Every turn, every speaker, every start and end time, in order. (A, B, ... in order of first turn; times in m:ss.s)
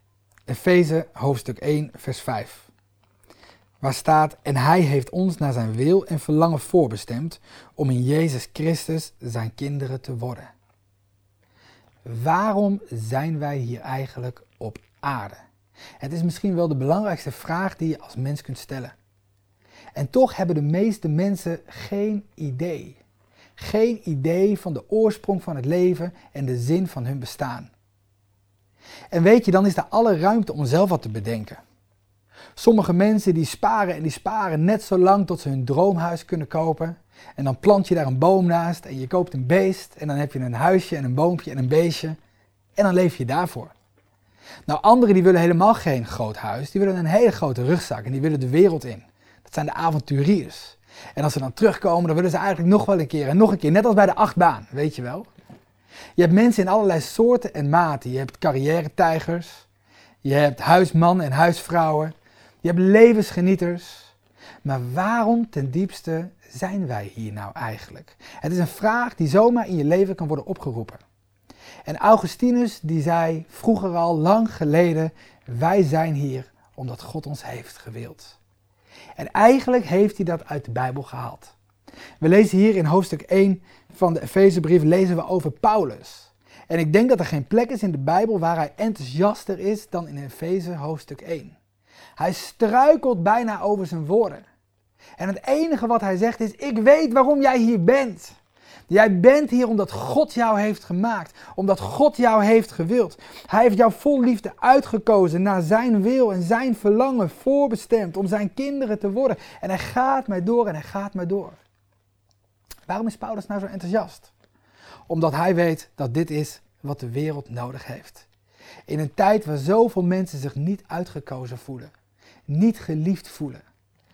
0:00.5-0:02.7 A
0:03.8-0:10.5 A
0:12.0-0:15.4 A
0:16.0-0:19.0 A
0:19.9-0:23.0 A
0:23.6-0:27.7 A
0:29.1-0:31.6 A
0:32.6-0:42.2 A
0:42.8-0:43.7 A
0:44.6-0:55.3 A
0:56.2-0:59.6 A
1:00.2-1:04.1 A
1:04.6-1:11.0 A
1:11.8-1:18.4 A
1:19.2-1:21.5 A
1:22.2-1:31.6 A
1:32.2-1:34.4 A
1:35.2-1:38.4 A
1:38.9-1:51.6 A
1:52.9-1:54.3 A
1:55.1-1:58.3 A
1:58.9-2:01.9 A
2:02.5-2:03.6 A